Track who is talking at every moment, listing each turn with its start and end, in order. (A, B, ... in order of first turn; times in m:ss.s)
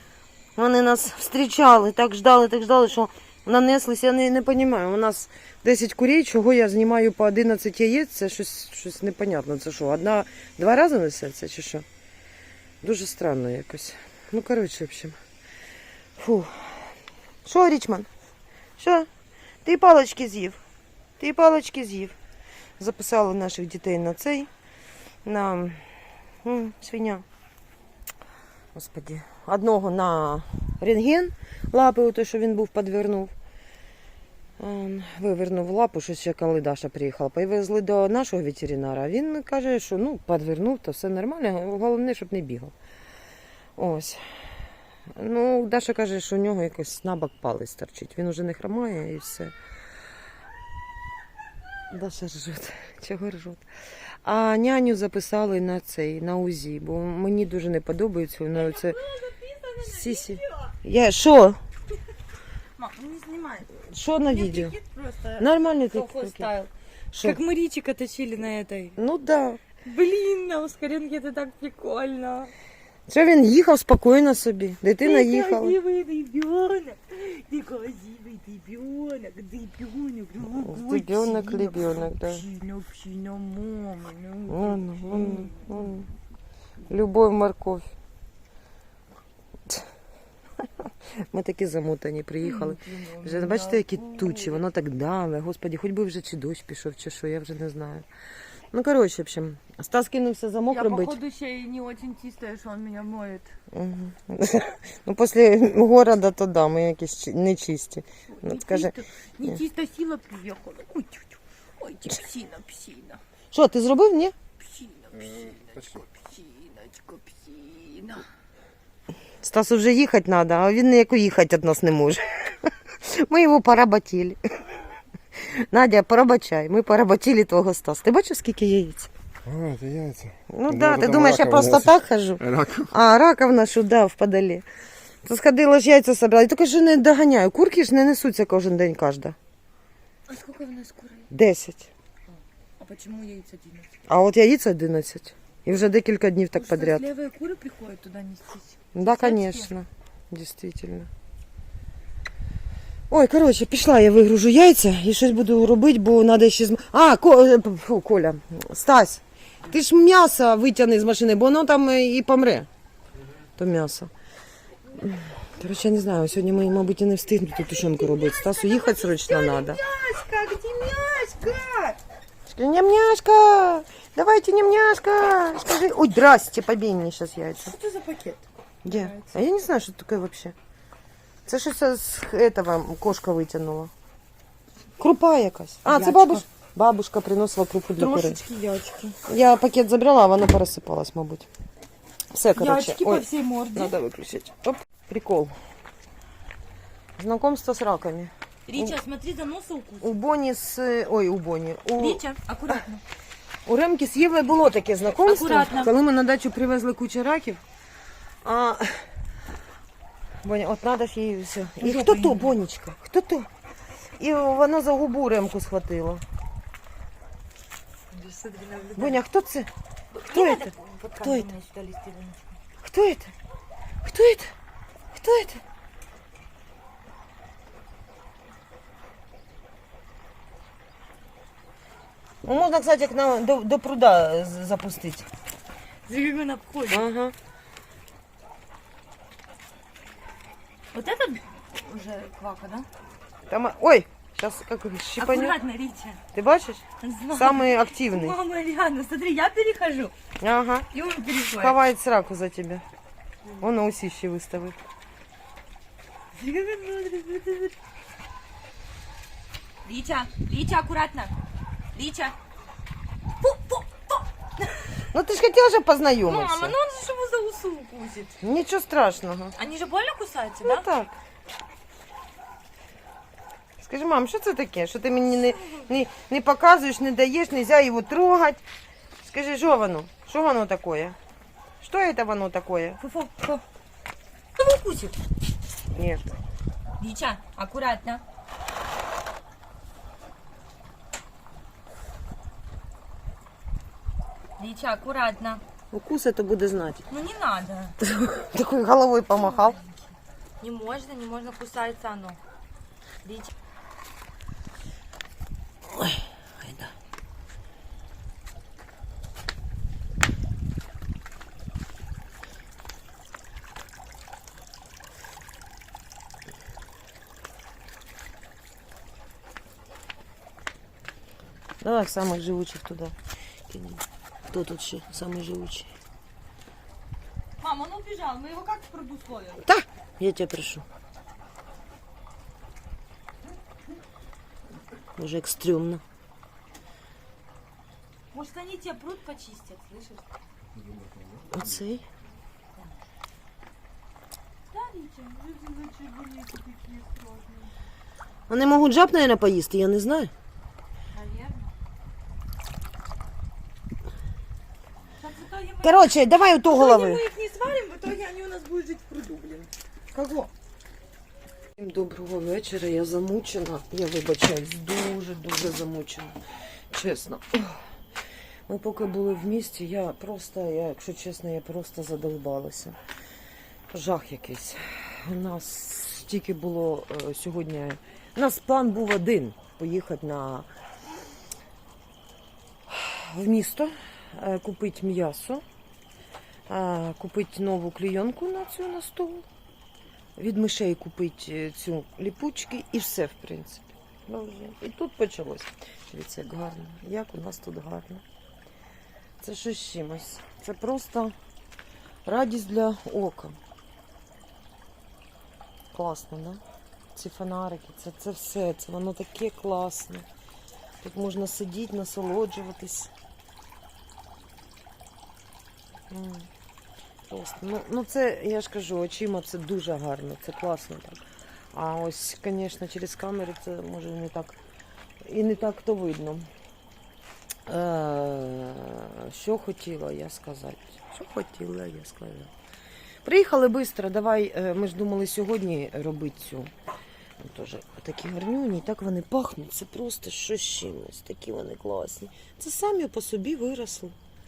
0:00.6-0:11.8 A
0:12.8-0:15.2 A
0:16.2-0:18.1 A
0:18.8-0:19.1 A
0:19.6-0:20.6 A
0:21.2-0:22.2 A
0:22.8-0:24.5 A
0:25.2-0:27.2 A
0:28.7-0:33.3 A
0:34.6-0:42.7 A
0:43.8-0:44.2 A
0:45.1-0:49.5 A
0:51.9-0:53.6 A
0:54.2-0:59.0 A
0:58.5-1:00.7 B
0:59.8-1:01.6 A
1:02.8-1:03.7 B
1:03.8-1:04.7 A
1:04.2-1:09.0 B
1:05.4-1:06.5 A
1:07.1-1:07.4 A
1:09.0-1:09.6 A
1:09.8-1:12.5 B
1:13.1-1:15.8 A
1:15.0-1:26.0 B
1:20.6-1:22.4 A
1:24.5-1:26.1 A
1:26.9-1:27.9 A
1:31.2-1:38.0 A
1:32.4-1:34.6 B
1:38.7-1:41.2 A
1:40.7-1:43.5 B
1:43.7-1:48.9 A
1:48.3-1:53.2 B
1:53.5-1:54.3 A
1:54.6-1:58.3 B
1:59.4-2:04.4 A
2:05.4-2:09.1 A
2:09.4-2:12.9 C
2:10.5-2:14.6 A
2:15.2-2:19.4 A
2:20.3-2:21.3 B
2:21.3-2:21.9 A
2:22.3-2:23.9 B
2:24.1-2:27.0 A
2:26.5-2:29.7 B
2:28.9-2:31.1 A
2:33.1-2:42.7 A
2:43.6-2:44.1 A
2:45.0-2:49.8 A
2:47.6-2:52.0 B
2:52.4-2:57.7 A
2:57.6-2:59.4 B
2:58.8-3:00.5 A
3:01.4-3:03.9 A
3:05.0-3:08.4 A
3:05.8-3:06.4 B
3:08.0-3:09.2 B
3:09.3-3:11.5 A
3:12.3-3:15.5 A
3:12.5-3:13.9 B
3:17.2-3:19.0 A
3:18.7-3:20.1 B
3:20.0-3:22.8 A
3:22.0-3:23.0 B
3:23.6-3:27.6 A
3:25.1-3:25.9 B
3:28.4-3:29.1 A
3:30.4-3:33.5 A
3:31.8-3:32.5 B
3:34.2-3:36.2 A
3:38.1-3:39.2 B
3:39.0-3:39.7 A
3:40.1-3:42.6 B
3:40.3-3:40.7 A
3:41.2-3:41.5 A
3:42.8-3:43.3 A
3:44.0-3:44.5 A
3:45.1-3:45.6 A
3:52.4-3:55.3 A
3:56.0-3:57.1 B
3:56.9-3:57.3 A
4:00.9-4:02.9 B
4:03.5-4:05.6 A
4:05.2-4:06.2 B
4:06.3-4:08.4 A
4:07.0-4:10.1 B
4:10.4-4:10.9 A
4:10.9-4:11.8 B
4:11.5-4:12.8 A
4:13.6-4:14.8 A
4:16.3-4:17.7 B
4:19.8-4:21.3 B
4:21.9-4:22.4 B
4:23.4-4:25.0 B
4:25.1-4:26.8 A
4:26.2-4:28.4 B
4:28.4-4:29.5 A
4:29.6-4:30.8 B
4:30.6-4:31.1 A
4:33.8-4:38.6 A
4:39.2-4:41.2 A
4:41.8-4:43.0 A
4:43.0-4:43.6 B
4:44.5-4:45.2 B
4:45.9-4:46.3 A
4:47.0-4:48.2 B
4:54.6-4:55.6 B
4:55.9-4:57.0 A
4:57.1-4:57.9 B
4:58.0-4:59.8 A
4:59.3-5:02.4 B
5:03.2-5:03.5 B
5:05.9-5:06.9 A
5:21.8-5:23.1 A
5:23.7-5:25.9 A
5:27.6-5:29.6 B
5:29.6-5:30.8 A
5:35.2-5:36.0 A
5:38.3-5:40.3 B
5:41.5-5:42.0 A
5:44.7-5:47.7 B
5:48.5-5:50.3 A
5:51.1-5:51.7 B
5:55.2-5:59.7 B
5:55.8-5:57.2 A
6:00.1-6:00.5 A
6:01.8-6:06.3 A
6:06.9-6:07.8 A
6:08.7-6:13.0 A
6:13.9-6:20.7 A
6:22.9-6:25.6 A
6:26.7-6:29.4 A
6:30.4-6:38.2 A
6:39.4-6:41.3 A
6:42.2-6:43.6 A
6:45.9-6:46.6 A
6:47.1-6:50.3 A
6:51.0-6:53.1 A
6:56.1-6:56.5 A
6:57.3-7:01.2 A
7:01.7-7:04.6 A
7:05.2-7:06.5 A
7:07.7-7:12.5 A
7:13.2-7:16.7 A
7:17.4-7:24.2 A